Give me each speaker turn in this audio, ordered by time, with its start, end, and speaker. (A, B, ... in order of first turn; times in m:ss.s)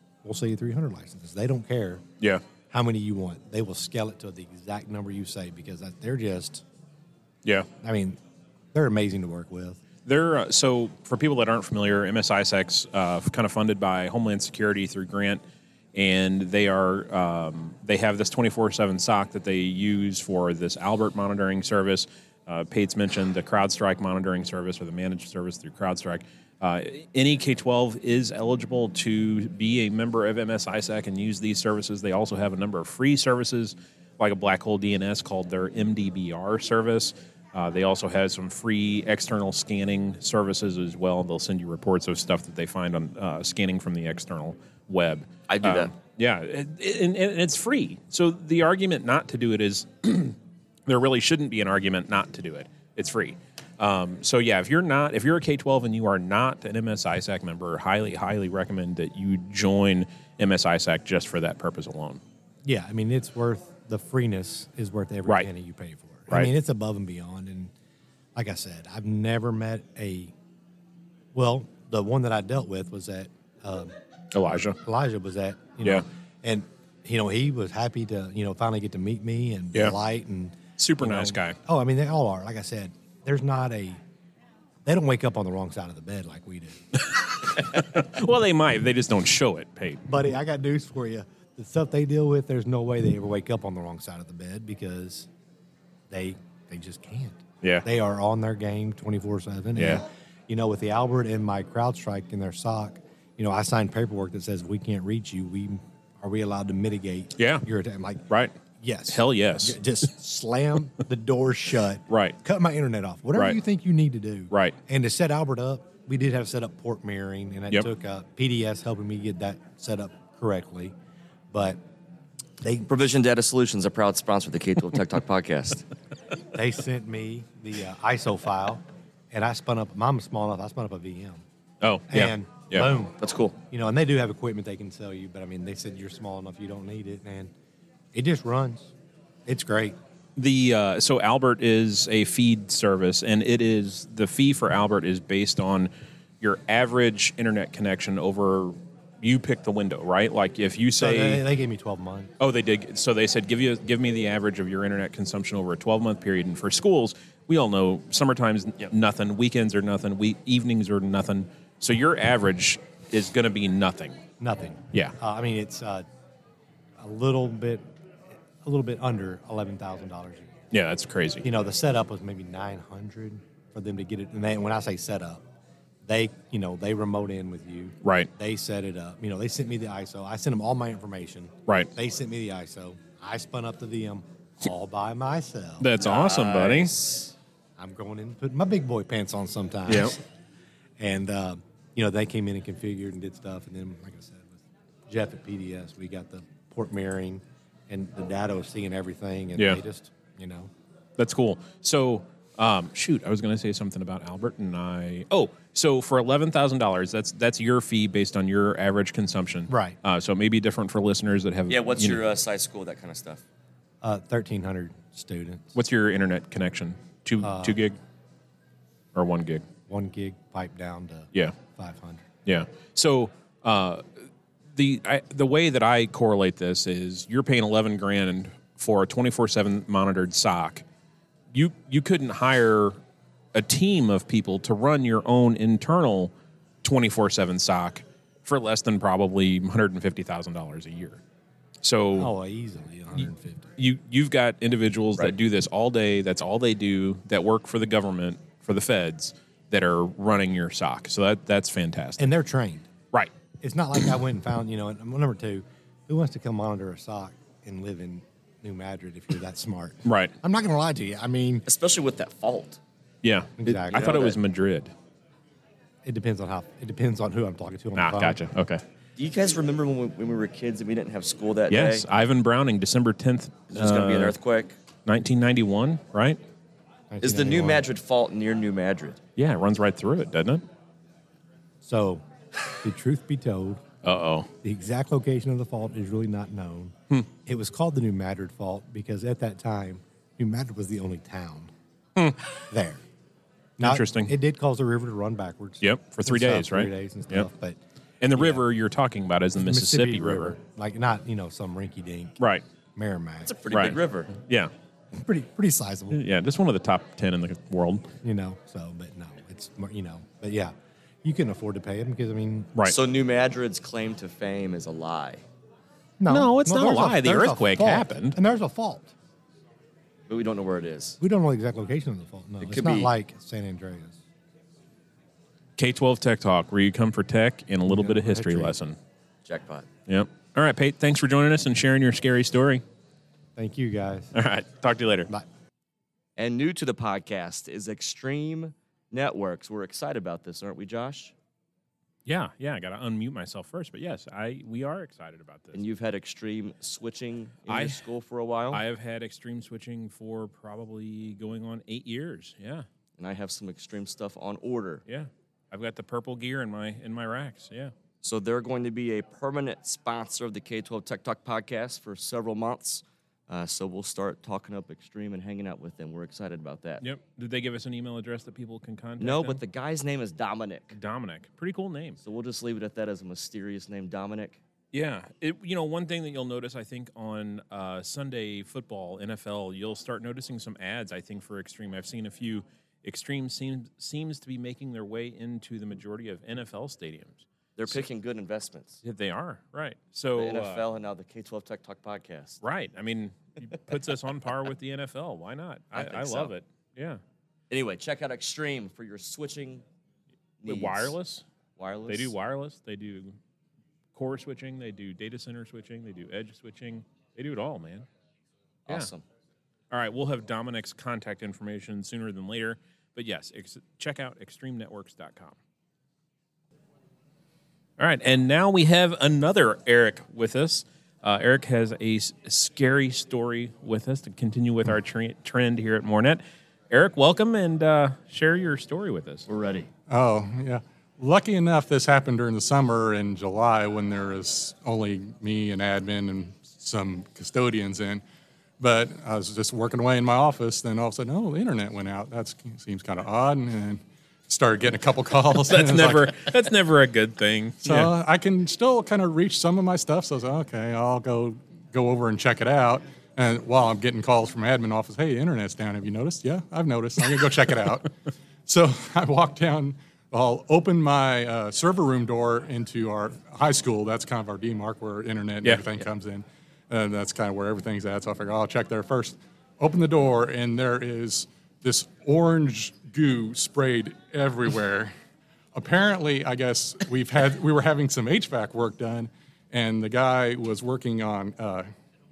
0:00.2-0:02.0 A
0:02.7-0:06.6 A
0:07.8-0:08.2 A
0:08.7-0:09.8 A
0:10.0-0:15.4 B
0:15.9-0:50.4 B
0:45.5-0:45.9 C
0:50.9-1:02.2 B
1:02.6-1:07.7 A
1:08.3-1:10.3 A
1:11.3-1:13.9 A
1:14.3-1:14.8 B
1:14.8-1:24.0 A
1:20.8-1:21.6 B
1:24.8-1:26.8 A
1:27.1-1:30.1 B
1:30.0-1:35.3 A
1:36.1-2:00.9 A
1:39.8-1:40.0 B
1:47.4-1:47.6 B
1:49.1-1:49.8 B
1:52.1-1:52.4 B
2:01.5-2:01.8 A
2:02.6-2:02.9 A
2:02.9-2:05.8 C
2:06.5-2:11.4 A
2:11.8-2:12.9 B
2:12.1-2:13.2 A
2:13.2-2:13.6 C
2:13.7-2:17.5 A
2:18.1-2:18.9 A
2:19.4-2:20.0 A
2:20.4-2:31.4 B
2:31.0-2:32.3 A
2:32.4-2:44.2 B
2:44.4-2:46.0 A
2:47.0-2:47.8 A
2:48.6-2:50.5 A
2:50.7-2:51.5 B
2:51.4-2:55.4 A
2:56.0-3:05.9 A
2:58.0-2:58.3 B
3:05.8-3:06.9 B
3:06.0-3:07.3 C
3:07.8-3:10.2 A
3:09.9-3:10.1 B
3:11.0-3:20.7 A
3:21.2-3:32.2 B
3:29.7-3:30.0 A
3:31.7-3:33.4 C
3:34.0-3:35.8 A
3:35.7-3:38.0 B
3:37.4-3:37.8 A
3:39.1-3:39.6 B
3:39.9-3:42.2 A
3:42.4-3:50.8 B
3:51.5-3:53.0 B
3:53.5-4:01.2 B
4:01.8-4:02.3 B
4:02.2-4:03.7 A
4:03.8-4:12.3 B
4:12.2-4:12.9 A
4:13.6-4:21.6 A
4:20.0-4:20.3 B
4:21.7-4:22.8 C
4:23.2-4:24.9 B
4:23.6-4:24.2 A
4:23.9-4:24.4 C
4:26.0-4:28.4 A
4:28.0-4:28.8 B
4:29.2-4:32.0 C
4:31.7-4:34.4 B
4:33.7-4:34.7 C
4:35.0-4:36.4 B
4:37.1-4:37.8 A
4:37.2-4:39.2 C
4:39.4-4:40.6 B
4:41.8-4:42.2 A
4:42.8-4:43.8 A
4:44.0-4:44.5 B
4:44.6-4:51.7 A
4:52.2-4:52.5 B
4:52.7-4:53.0 A
4:53.8-4:57.8 A
4:53.8-4:54.3 B
4:55.8-4:57.5 B
4:58.2-5:00.6 B
4:58.3-4:58.6 A
4:59.6-5:02.4 A
5:02.4-5:02.6 B
5:02.9-5:03.5 A
5:03.4-5:04.3 C
5:03.7-5:04.7 B
5:05.1-5:06.2 A
5:06.1-5:08.1 B
5:08.2-5:12.7 A
5:12.9-5:15.4 C
5:16.2-5:19.1 A
5:16.3-5:18.4 B
5:20.3-5:21.2 C
5:21.2-5:24.2 A
5:22.6-5:23.1 C
5:25.8-5:29.0 B
5:27.8-5:28.8 A
5:29.4-5:29.9 C
5:30.1-5:32.8 B
5:33.6-5:34.3 A
5:34.3-5:35.3 B
5:36.4-5:41.3 C
5:42.2-5:45.8 B
5:45.7-5:48.8 C
5:47.7-5:48.0 B
5:48.7-5:52.8 B
5:53.2-5:55.0 C
5:55.0-5:57.9 B
5:58.2-6:07.0 C
6:07.0-6:09.6 B
6:09.2-6:11.0 C
6:10.9-6:12.2 B
6:12.2-6:14.6 C
6:14.9-6:28.0 B
6:27.8-6:29.0 C
6:29.0-6:30.8 B
6:30.4-6:32.6 C
6:32.6-6:37.2 B
6:35.9-6:36.5 C
6:37.7-6:39.8 C
6:40.6-6:41.1 C
6:40.6-6:41.4 B
6:41.8-6:42.3 C
6:42.1-6:43.4 B
6:44.1-6:48.1 B
6:48.8-6:49.2 C
6:49.9-6:55.6 B
6:58.0-7:09.4 B
7:09.5-7:09.9 C
7:10.1-7:18.2 D
7:18.8-7:26.4 D
7:25.7-7:28.1 B
7:27.8-7:38.1 D
7:38.6-7:55.1 D
7:55.7-8:01.9 D